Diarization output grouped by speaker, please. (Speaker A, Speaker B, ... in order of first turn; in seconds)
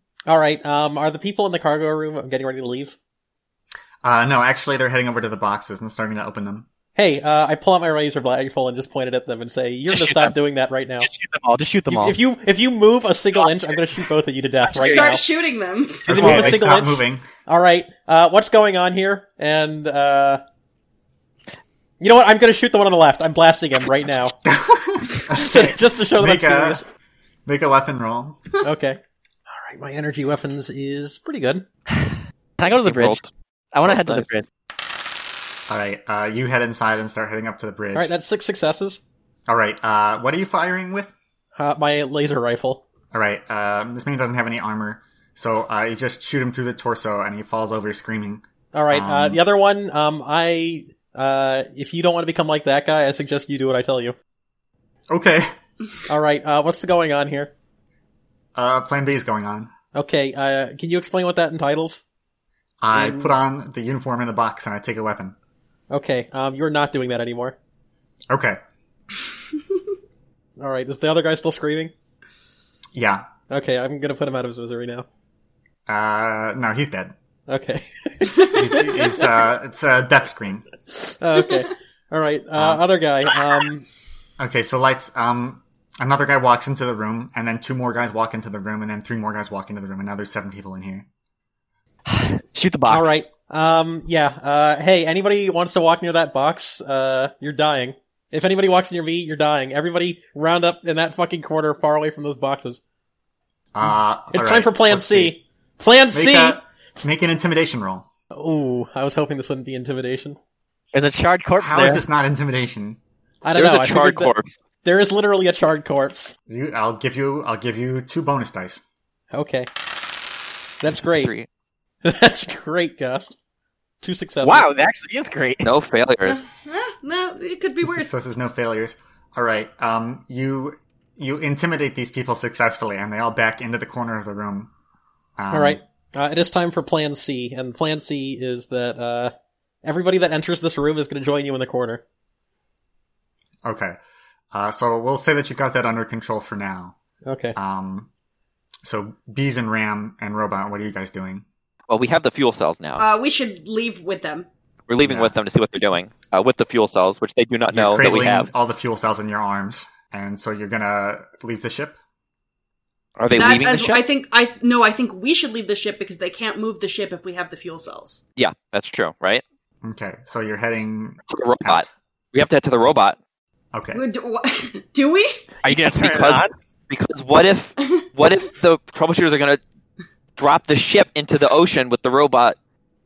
Speaker A: 0.3-3.0, 7.0-11.1, 11.9-15.2, 16.1-20.4, 22.0-24.4, 25.3-26.9, 28.6-29.0, 29.5-31.6, 37.9-39.0, 41.6-42.8, 48.7-54.1, 56.1-57.5, 59.9-62.0, 62.9-63.4, 65.9-67.5, 70.6-71.9, 73.5-75.0, 77.5-78.5, 80.9-83.8, 92.9-102.8, 103.8-106.6, 108.3-110.4, 113.4-116.3, 119.3-119.7, 120.8-121.3, 122.0-123.3, 124.0-124.7, 135.5-139.3, 139.8-142.0, 147.2-147.6
Speaker B: 4.0-6.7, 16.1-17.3, 24.4-26.8, 27.4-28.4, 35.7-38.1, 39.5-41.1, 43.1-49.4, 55.1-55.5, 58.5-59.7, 62.8-65.4, 68.3-68.6, 72.9-73.3, 75.9-77.1, 78.4-80.7, 82.5-82.8, 84.4-91.0, 103.7-105.4, 106.1-108.1, 111.6-113.0, 116.5-118.8, 127.8-134.7, 135.4-135.8, 143.6-144.0, 144.5-146.9, 147.6-148.1, 148.8-151.4, 155.0-155.3, 157.7-162.0, 169.8-171.9, 173.7-174.0
Speaker C: 9.9-10.3, 11.0-12.2, 13.4-13.8, 31.9-33.2, 33.7-34.5, 92.1-93.1, 110.9-112.0, 124.4-125.7, 175.6-176.5
Speaker D: 14.7-16.4, 78.3-78.9, 126.3-128.2, 153.0-154.5, 163.3-168.2, 173.9-175.4
Speaker E: 32.6-33.3, 33.8-34.3, 113.5-114.6, 121.2-121.5, 125.6-126.5, 151.9-153.1, 154.9-158.5, 163.2-164.0, 168.4-169.4, 171.3-173.2, 175.7-179.6, 180.4-182.6